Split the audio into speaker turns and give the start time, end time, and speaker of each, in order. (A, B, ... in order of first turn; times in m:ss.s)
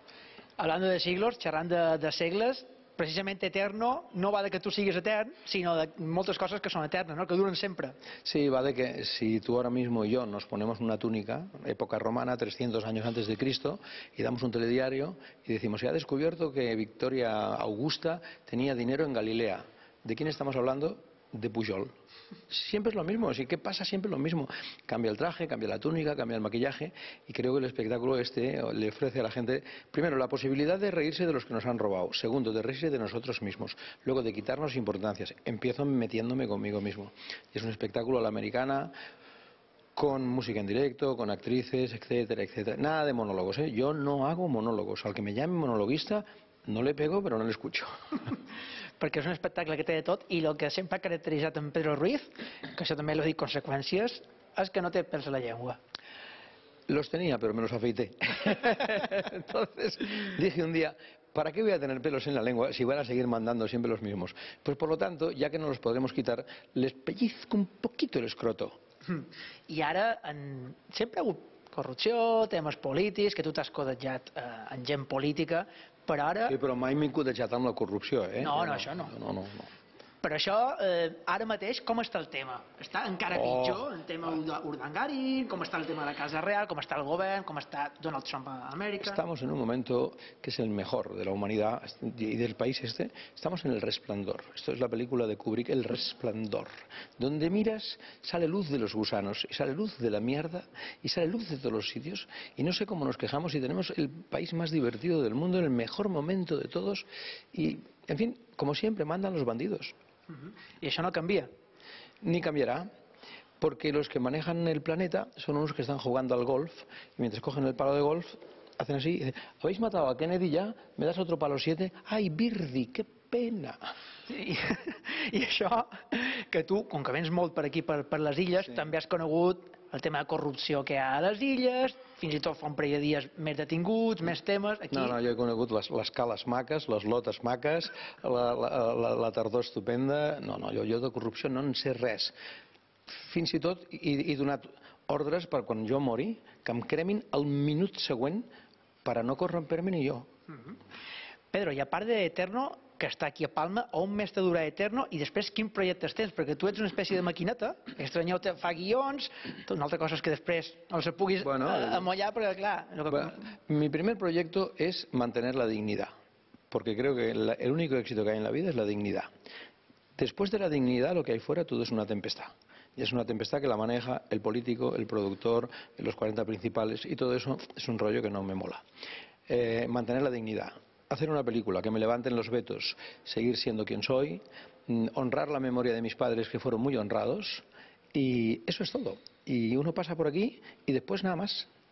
0:00.6-0:07.9 A
0:08.2-0:21.9 B
0:22.5-0:38.9 B
0:40.0-0:47.9 B
0:49.0-0:55.8 A
0:56.9-1:08.8 B
1:09.1-1:16.5 A
1:16.5-1:19.7 B
1:18.4-1:19.1 A
1:20.2-1:29.2 A
1:23.3-1:23.9 B
1:29.0-1:49.9 B
1:50.4-1:51.5 A
1:52.2-1:52.9 B
1:53.6-2:03.8 B
2:04.3-2:15.2 A
2:14.9-2:22.3 B
2:23.1-2:28.5 B
2:29.0-2:30.3 B
2:31.5-2:43.4 A
2:41.4-2:42.1 B
2:43.1-2:46.1 B
2:46.7-2:49.3 B
2:50.2-2:58.8 B
2:59.5-3:11.7 B